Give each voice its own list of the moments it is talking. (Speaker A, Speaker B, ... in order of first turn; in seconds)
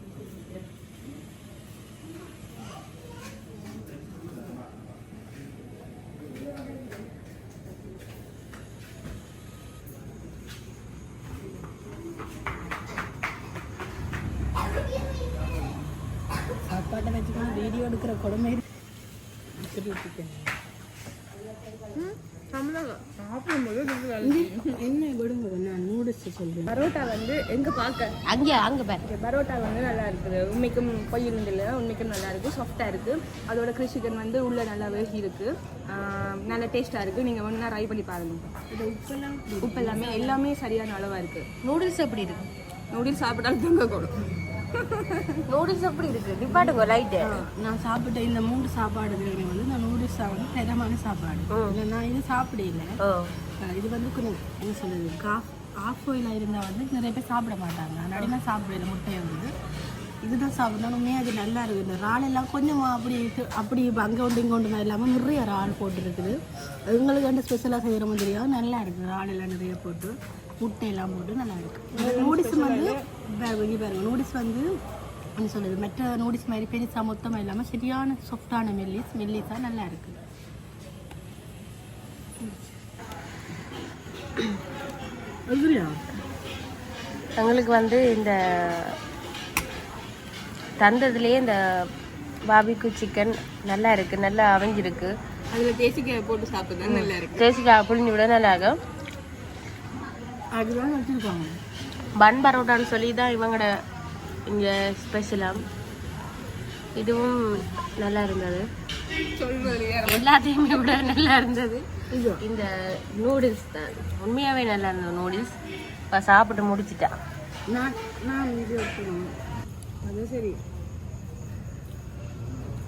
Speaker A: 16.7-18.6, 19.6-20.5, 24.2-26.7, 38.7-40.4, 46.5-52.9, 53.6-59.5, 60.2-74.7, 75.3-80.2, 85.5-86.0, 100.5-101.6, 112.1-112.4, 117.7-119.3, 120.0-120.6
Speaker B: 21.9-24.7, 26.7-28.1, 29.0-38.5, 39.6-41.5, 42.9-44.2, 44.7-45.4, 71.9-73.0, 95.5-97.4, 109.3-110.2
Speaker C: 28.3-29.0, 41.6-42.4, 45.5-47.3, 51.5-51.8, 53.0-53.3, 87.4-88.9, 90.8-91.5, 92.5-95.1, 96.8-98.8, 102.2-103.7, 104.5-105.6, 107.0-108.6, 110.0-111.8, 112.4-115.5, 116.1-117.1